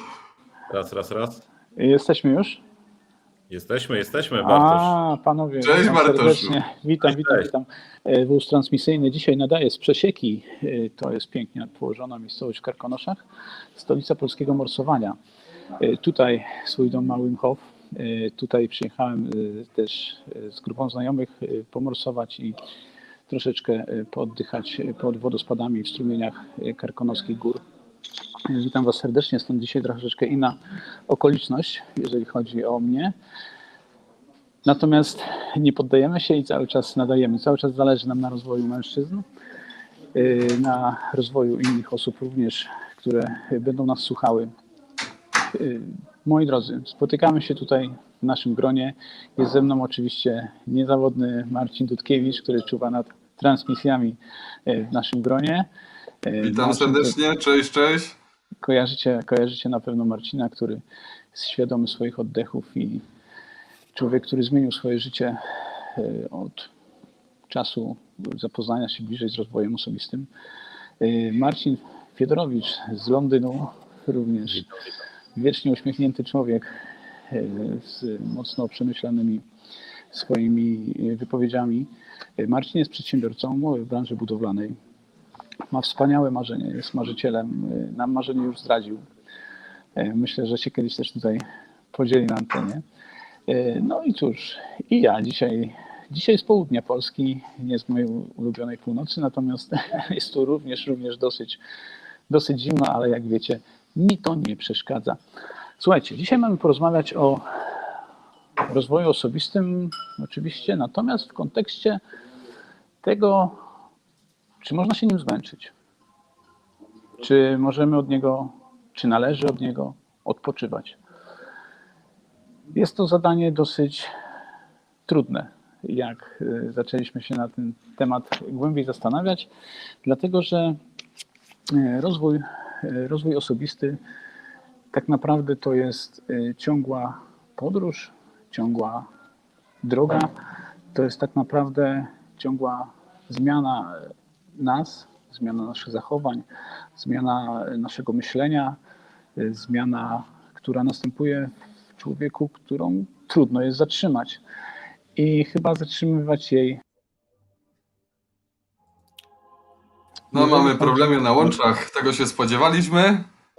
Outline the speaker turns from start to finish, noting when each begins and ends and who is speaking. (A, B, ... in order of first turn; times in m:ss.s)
0:00.7-0:01.4 A
0:01.8-0:02.6 B
0:03.5-0:05.0 A
0:04.4-0:13.2 B
0:05.6-0:06.6 C
0:07.0-0:07.5 A
0:13.7-0:15.2 B
0:15.8-0:22.6 B
0:23.3-0:27.6 B
0:28.5-0:30.6 B
0:31.1-0:33.1 B
0:34.6-0:39.2 B
0:40.1-0:44.5 B
0:45.5-0:55.7 B
0:56.2-0:57.1 B
0:56.4-0:58.2 C
0:58.6-1:03.0 B
1:03.9-1:05.4 B
1:05.9-1:06.7 B
1:07.5-1:10.3 B
1:11.0-1:14.7 B
1:15.4-1:16.7 B
1:17.3-1:19.4 B
1:20.1-1:24.8 B
1:25.7-1:29.0 B
1:30.0-1:32.8 B
1:33.5-1:41.6 B
1:42.3-1:45.2 B
1:45.8-1:47.4 B
1:48.7-1:52.0 B
1:53.0-1:53.6 B
1:54.6-1:55.7 B
1:57.2-2:01.0 B
2:02.7-2:04.1 B
2:05.1-2:09.5 B
2:10.0-2:10.8 B
2:11.7-2:14.0 B
2:14.9-2:19.0 B
2:19.8-2:20.3 B
2:20.9-2:28.8 B
2:29.4-2:34.4 B
2:35.2-2:36.8 B
2:40.3-2:41.5 B
2:40.3-2:43.3 C